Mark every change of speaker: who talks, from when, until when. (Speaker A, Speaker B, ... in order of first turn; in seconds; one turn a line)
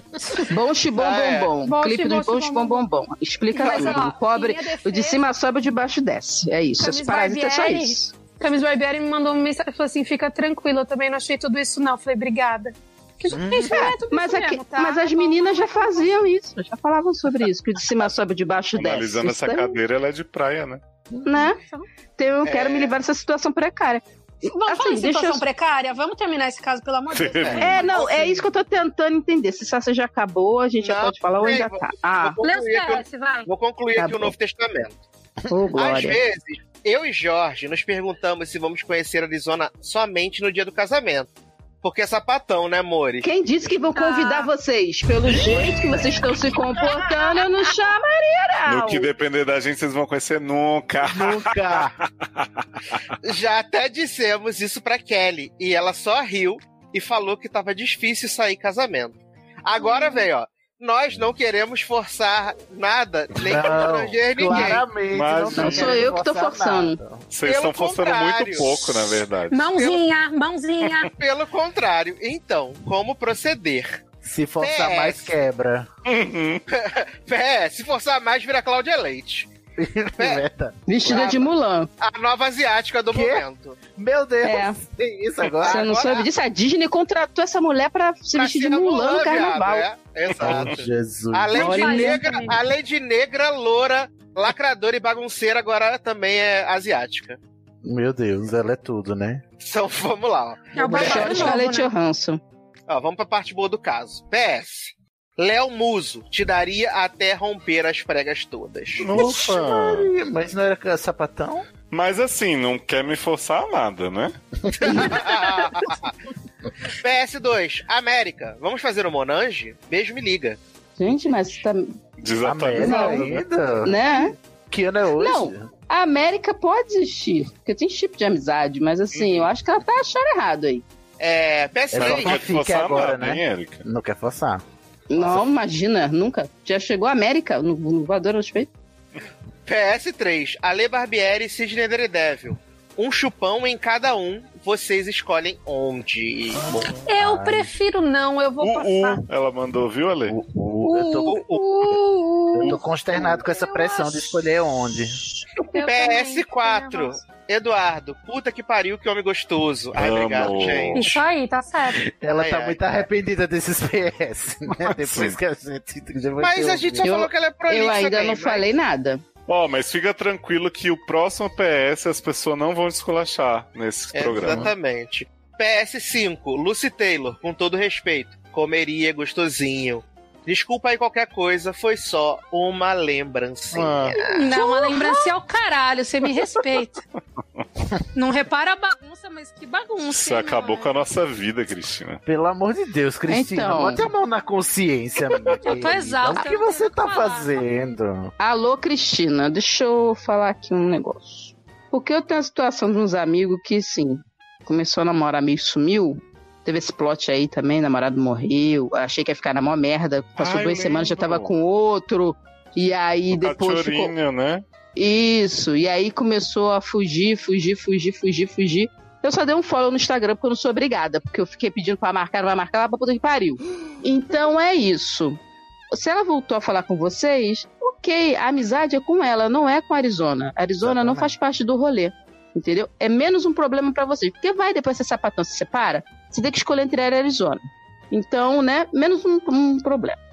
Speaker A: 0.5-8.1
Speaker B: 0.9-1.5
Speaker C: 1.6-2.8
Speaker C: 3.5-5.2
Speaker C: 6.8-16.1
Speaker D: 13.3-13.8
Speaker A: 13.7-19.8
Speaker E: 18.8-20.8
Speaker D: 21.1-21.4
Speaker A: 21.2-21.6
Speaker C: 21.6-21.9
Speaker A: 22.2-25.4
Speaker B: 22.4-23.0
Speaker C: 24.5-28.0
Speaker E: 27.1-27.9
Speaker B: 27.4-28.3
Speaker A: 27.6-32.4
Speaker B: 30.8-35.0
Speaker C: 32.4-33.5
Speaker A: 34.0-34.3
Speaker A: 35.5-36.2
Speaker B: 35.8-41.3
Speaker B: 41.8-43.3
Speaker A: 43.2-49.1
Speaker C: 44.0-44.5
Speaker E: 48.7-52.5
Speaker D: 51.0-52.0
Speaker B: 53.2-64.8
Speaker C: 59.8-60.2
Speaker D: 63.4-67.2
Speaker E: 65.1-66.1
Speaker A: 65.5-67.0
Speaker E: 67.3-69.7
Speaker B: 67.4-69.1
Speaker C: 69.5-71.1
Speaker B: 69.7-70.0
Speaker B: 71.2-73.9
Speaker D: 74.2-75.9
Speaker B: 74.6-75.3
Speaker E: 76.1-76.6
Speaker B: 76.7-79.5
Speaker D: 79.8-81.4
Speaker B: 80.2-80.4
Speaker A: 80.9-81.9
Speaker B: 81.1-81.5
Speaker B: 82.0-83.8
Speaker D: 83.1-83.4
Speaker D: 84.0-85.9
Speaker A: 84.5-84.8
Speaker B: 85.6-86.3
Speaker A: 85.6-89.9
Speaker B: 88.4-97.4
Speaker E: 90.4-90.7
Speaker D: 90.4-91.8
Speaker A: 91.5-92.5
Speaker C: 91.6-92.6
Speaker D: 97.8-99.4
Speaker B: 99.6-101.5
Speaker C: 100.7-101.9
Speaker A: 100.8-102.4
Speaker D: 101.0-101.4
Speaker B: 102.9-109.2
Speaker E: 109.0-110.1
Speaker D: 109.1-111.7
Speaker E: 111.9-114.3
Speaker D: 114.8-115.2
Speaker B: 114.8-116.1
Speaker B: 117.0-120.6
Speaker A: 121.0-122.0
Speaker E: 122.2-123.3
Speaker D: 122.4-124.0
Speaker A: 122.8-123.3
Speaker A: 123.8-124.3
Speaker D: 124.7-125.7
Speaker A: 125.2-130.8
Speaker E: 129.2-129.5
Speaker B: 131.2-132.4
Speaker D: 131.9-134.6
Speaker E: 131.9-133.8
Speaker A: 135.1-138.7
Speaker B: 139.7-146.8
Speaker D: 146.6-147.7
Speaker C: 147.1-149.2
Speaker E: 148.6-150.4
Speaker D: 150.3-151.4
Speaker C: 150.8-152.8
Speaker B: 151.3-151.7
Speaker D: 152.5-155.2
Speaker C: 153.3-154.3
Speaker C: 155.6-157.3
Speaker B: 155.8-161.2
Speaker E: 159.9-161.1
Speaker C: 160.9-162.0
Speaker D: 162.1-167.2
Speaker B: 162.3-162.8
Speaker E: 164.9-165.4
Speaker B: 166.4-168.7
Speaker A: 167.0-169.2
Speaker E: 169.5-174.7
Speaker B: 174.1-184.5
Speaker D: 174.4-174.7
Speaker E: 183.7-184.2
Speaker C: 184.2-187.0
Speaker A: 184.6-185.1
Speaker C: 188.2-191.1
Speaker E: 190.1-192.2
Speaker D: 192.3-198.3
Speaker A: 193.3-194.1
Speaker C: 195.4-197.6
Speaker E: 195.5-195.8
Speaker A: 198.4-214.1
Speaker E: 210.4-211.5
Speaker E: 213.3-214.7
Speaker A: 215.0-225.4
Speaker A: 225.9-240.2
Speaker D: 230.8-231.3